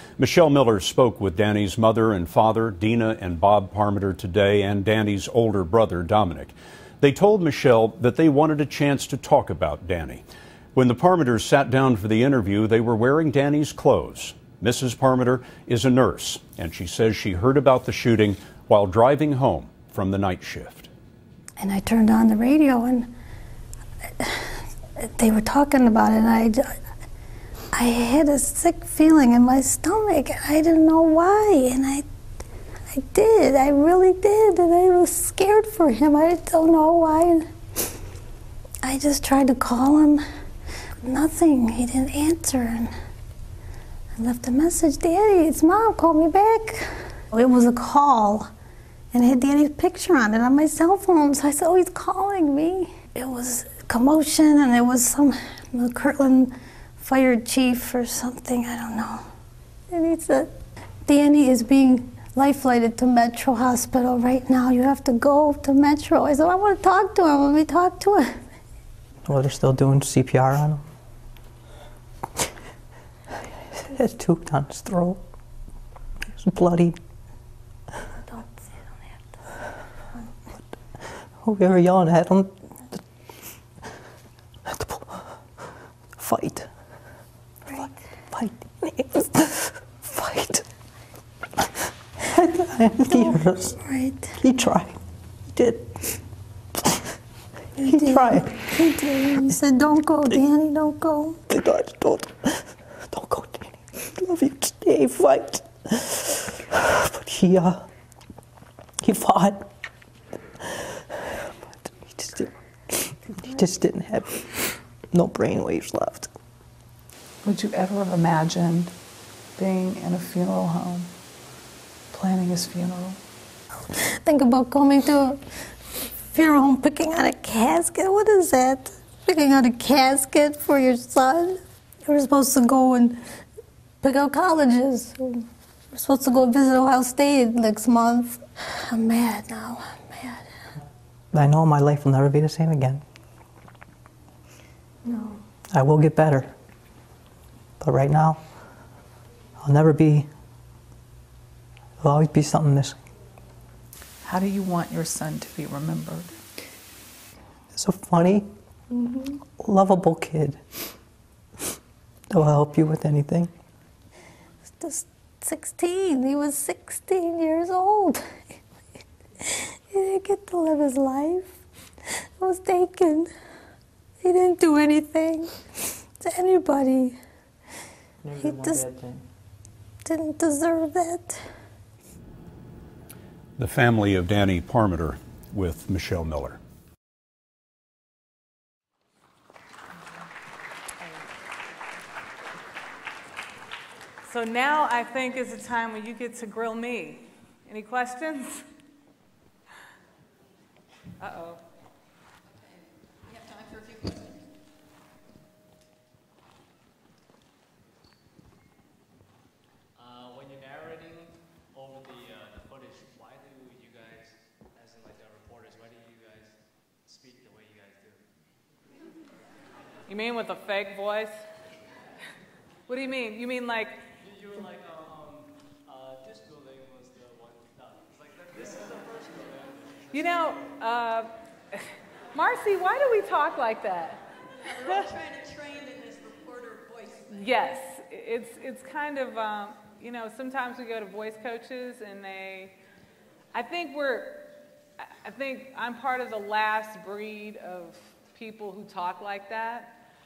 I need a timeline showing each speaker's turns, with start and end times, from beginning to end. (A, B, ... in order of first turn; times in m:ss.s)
0:00.2-0:20.9 A
0:21.6-0:23.1 B
0:24.2-0:26.8 B
0:27.7-0:32.0 B
0:32.9-0:37.5 B
0:38.8-0:40.2 B
0:41.0-0:42.9 B
0:44.2-0:48.5 B
0:49.1-0:59.3 B
0:59.9-1:00.6 B
1:01.1-1:08.4 B
1:09.2-1:10.8 C
1:13.8-1:15.2 C
1:16.3-1:17.0 C
1:18.3-1:19.4 B
1:20.6-1:23.1 C
1:24.7-1:25.6 C
1:26.2-1:27.1 C
1:27.7-1:28.1 B
1:27.7-1:30.7 C
1:32.3-1:33.8 C
1:33.0-1:34.4 B
1:34.4-1:36.2 C
1:37.8-1:39.6 C
1:37.8-1:41.4 B
1:41.5-1:47.9 C
1:49.0-1:49.7 C
1:51.5-1:56.3 C
1:57.4-1:58.9 D
1:59.6-2:01.0 D
2:02.1-2:03.2 D
2:04.2-2:05.4 B
2:06.3-2:13.2 B
2:14.0-2:20.5 B
2:21.3-2:23.0 C
2:25.0-2:25.4 B
2:25.7-2:26.6 C
2:27.8-2:28.6 C
2:29.6-2:30.3 C
2:32.0-2:33.0 C
2:34.3-2:36.2 E
2:37.7-2:38.5 C
2:39.0-2:39.4 B
2:39.5-2:40.8 C
2:42.3-2:43.5 C
2:44.8-2:48.4 B
2:49.4-2:51.6 B
2:52.4-2:53.3 B
2:54.2-2:57.2 B
2:58.2-2:59.2 C
2:58.4-2:58.9 B
3:00.1-3:01.4 B
3:03.6-3:06.6 A
3:14.2-3:18.6 D
3:21.2-3:21.6 D
3:22.5-3:24.5 F
3:30.0-3:38.3 G
3:40.1-3:41.4 D
3:42.9-3:44.1 D
3:44.2-3:50.7 G
3:50.1-3:51.8 D
3:52.3-3:54.2 D
3:54.6-3:57.5 F
3:57.3-4:02.8 D
4:03.5-4:04.5 D
4:05.0-4:10.0 D